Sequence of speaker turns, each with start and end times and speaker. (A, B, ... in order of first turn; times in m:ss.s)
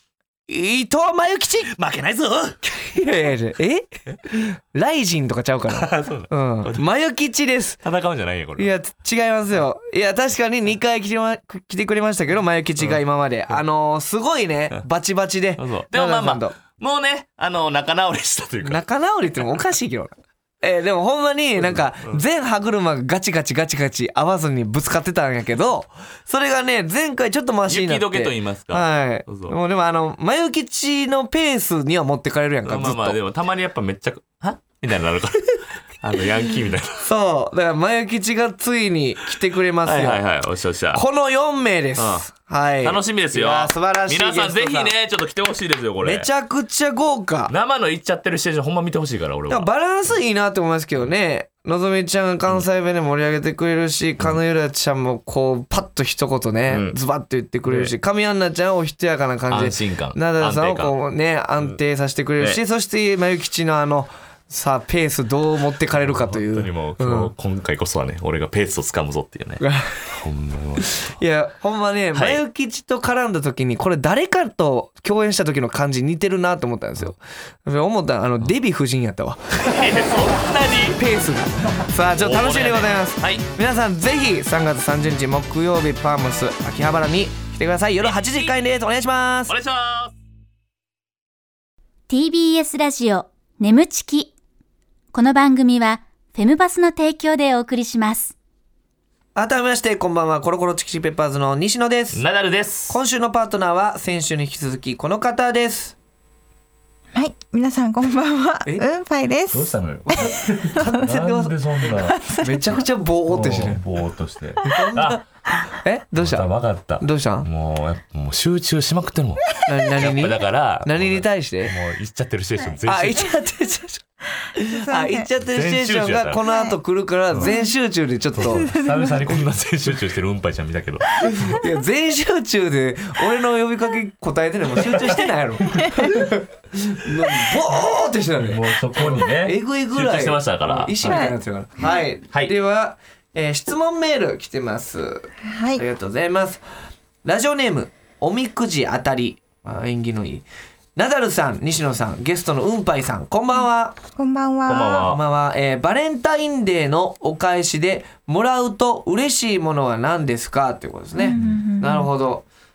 0:00.5-0:01.7 A
0:01.7-0:02.6 B
0:02.6-0:07.8 A
0:05.7-0:06.8 B
0:07.8-0:08.7 B
0:08.6-0:16.6 A
0:15.6-0:18.8 B
0:18.6-0:33.2 A
0:21.6-0:22.2 B
0:27.7-0:29.6 B
0:32.7-0:37.1 B
0:37.0-0:40.2 A
0:39.8-0:41.0 B
0:40.9-0:44.9 A
0:42.0-0:46.3 B
0:46.0-0:47.5 A
0:47.5-0:49.7 B
0:49.5-1:07.3 A
0:56.7-0:57.0 B
0:57.7-0:57.9 B
0:59.5-1:00.9 B
1:06.0-1:11.1 B
1:09.6-1:10.2 A
1:10.8-1:20.1 A
1:12.1-1:12.4 B
1:19.6-1:21.0 B
1:21.0-1:29.6 A
1:22.2-1:23.5 B
1:28.0-1:28.6 B
1:29.5-1:30.2 B
1:32.1-1:34.3 C
1:35.1-1:38.3 C
1:39.4-1:42.2 A
1:42.1-1:43.0 B
1:42.9-1:46.0 A
1:47.1-1:50.9 D
1:49.5-1:52.2 B
1:50.6-1:51.5 A
1:52.0-1:52.8 D
1:52.4-1:53.8 A
1:53.3-1:55.2 B
1:54.6-1:56.5 A
1:56.2-2:03.4 B
1:57.0-1:57.5 A
1:59.7-2:01.7 A
2:02.8-2:08.7 A
2:04.6-2:05.3 D
2:05.4-2:06.4 B
2:06.4-2:06.8 D
2:07.4-2:07.7 D
2:08.4-2:11.6 B
2:08.5-2:09.2 D
2:11.4-2:26.6 A
2:18.4-2:21.3 B
2:21.0-2:22.0 D
2:25.4-2:25.8 D
2:27.2-2:30.4 A
2:31.0-2:34.0 A
2:34.2-2:35.0 D
2:34.7-2:35.2 B
2:35.0-2:42.4 A
2:41.2-2:42.1 D